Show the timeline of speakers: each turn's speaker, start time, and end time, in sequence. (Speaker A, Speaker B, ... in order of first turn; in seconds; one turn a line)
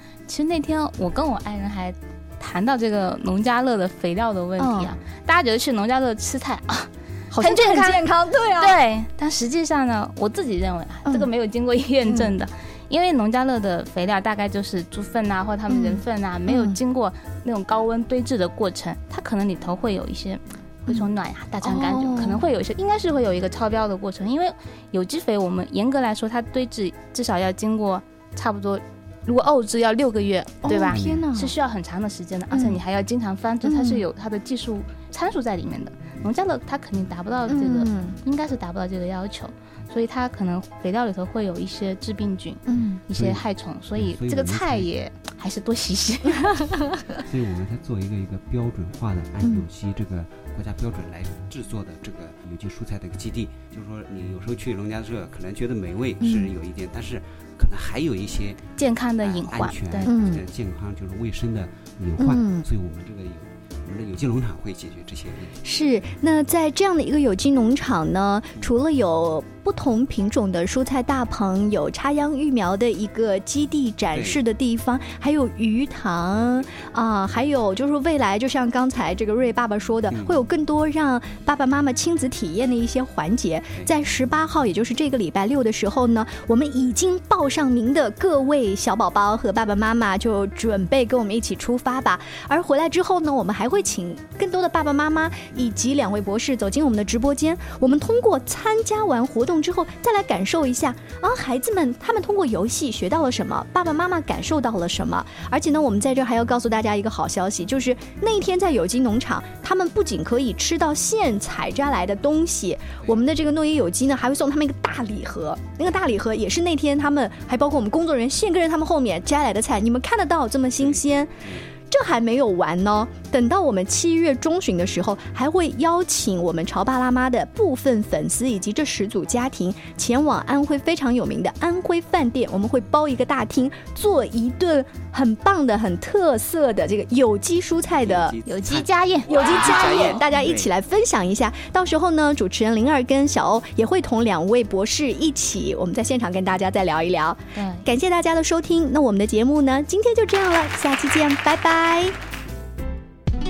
Speaker A: 0.3-8.0
Speaker B: 4.6-4.9
Speaker B: 7.3-8.8
Speaker A: 8.6-46.7
Speaker B: 12.1-12.3
Speaker B: 15.7-16.8
Speaker B: 21.6-22.4
Speaker B: 30.6-31.5
Speaker C: 30.9-31.3
Speaker B: 32.5-32.8
Speaker B: 33.6-34.0
Speaker B: 37.5-38.2
Speaker B: 42.7-43.0
Speaker C: 43.1-43.4
Speaker C: 44.0-44.9
Speaker C: 47.2-58.6
Speaker B: 56.2-56.5
Speaker A: 58.8-60.1
Speaker C: 59.2-65.6
Speaker B: 60.1-60.4
Speaker B: 62.2-62.6
Speaker B: 65.6-138.3
Speaker C: 74.1-74.4
Speaker C: 80.1-80.4
Speaker C: 120.8-121.7
Speaker C: 138.0-140.7
Speaker A: 138.4-140.2
Speaker B: 139.3-152.1
Speaker A: 147.6-147.8